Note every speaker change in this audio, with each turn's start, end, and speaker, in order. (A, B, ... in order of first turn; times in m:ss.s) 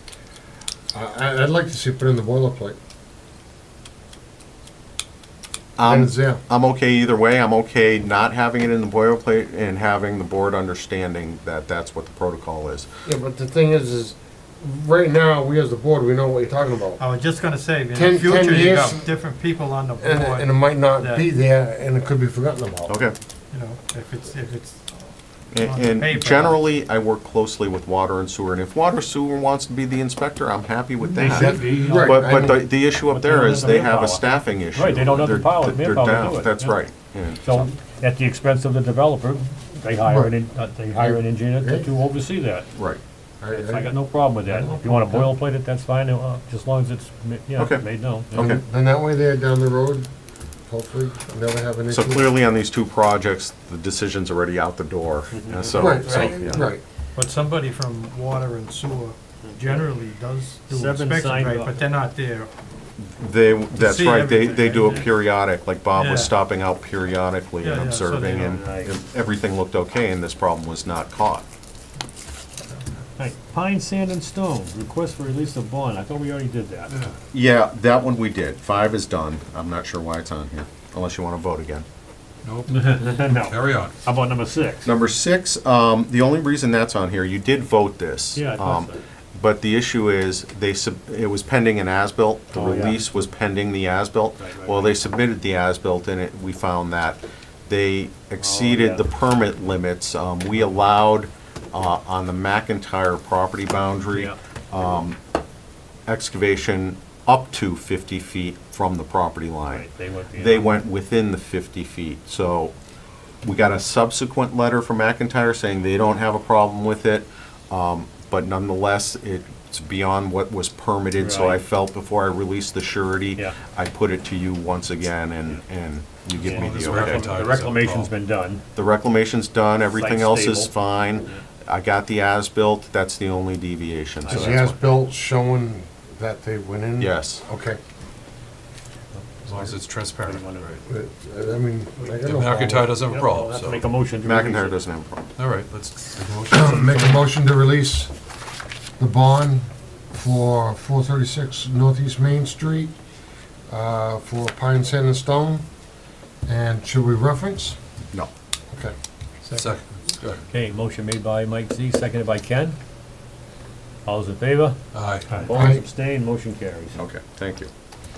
0:00.9-0:02.8 A
0:05.8-0:12.9 B
0:05.8-0:06.4 A
0:13.0-0:17.0 A
0:17.0-0:21.3 C
0:17.9-0:19.1 A
0:20.0-0:22.9 A
0:22.9-0:23.1 B
0:23.5-0:26.6 C
0:25.5-0:37.6 B
0:31.1-0:32.2 D
0:31.2-0:32.6 A
0:33.0-0:36.8 D
0:37.4-0:42.7 D
0:40.0-0:40.3 A
0:41.0-0:41.9 A
0:42.7-0:43.0 B
0:43.4-0:45.3 A
0:43.5-0:48.5 D
0:47.6-0:48.6 B
0:48.3-0:50.1 A
0:50.7-0:52.3 A
0:51.9-0:56.6 B
0:55.3-0:56.7 D
0:55.7-0:56.8 A
0:57.2-1:02.5 C
0:59.4-0:59.9 D
1:00.7-1:01.8 D
1:03.0-1:11.4 B
1:03.7-1:05.1 C
1:05.9-1:06.3 C
1:07.6-1:08.6 C
1:08.5-1:08.9 D
1:13.2-1:16.9 D
1:17.3-1:21.8 B
1:22.4-1:22.7 E
1:22.7-1:24.9 D
1:23.4-1:23.9 E
1:24.8-1:45.2 B
1:28.3-1:29.0 D
1:32.5-1:33.0 D
1:34.4-1:35.0 D
1:38.4-1:39.0 D
1:44.0-1:44.4 D
1:46.1-1:52.7 B
1:49.7-1:50.8 D
1:53.4-2:07.3 B
2:01.2-2:01.6 D
2:06.4-2:08.6 D
2:06.4-2:08.1 E
2:08.7-2:14.6 B
2:09.9-2:11.4 D
2:14.2-2:15.0 D
2:14.3-2:17.8 A
2:17.0-2:17.4 B
2:19.1-2:20.8 D
2:19.4-2:20.8 E
2:20.8-2:23.0 A
2:22.0-2:22.3 D
2:22.2-2:23.8 E
2:22.9-2:24.8 D
2:24.2-2:25.3 B
2:25.4-2:27.2 E
2:26.5-2:28.1 A
2:29.0-2:32.9 A
2:33.7-2:35.6 A
2:36.5-2:37.8 A
2:39.5-2:40.4 E
2:40.5-2:42.8 D
2:44.0-2:44.8 D
2:44.9-2:45.4 E
2:45.3-2:47.0 D
2:45.5-2:45.8 A
2:46.9-2:47.7 B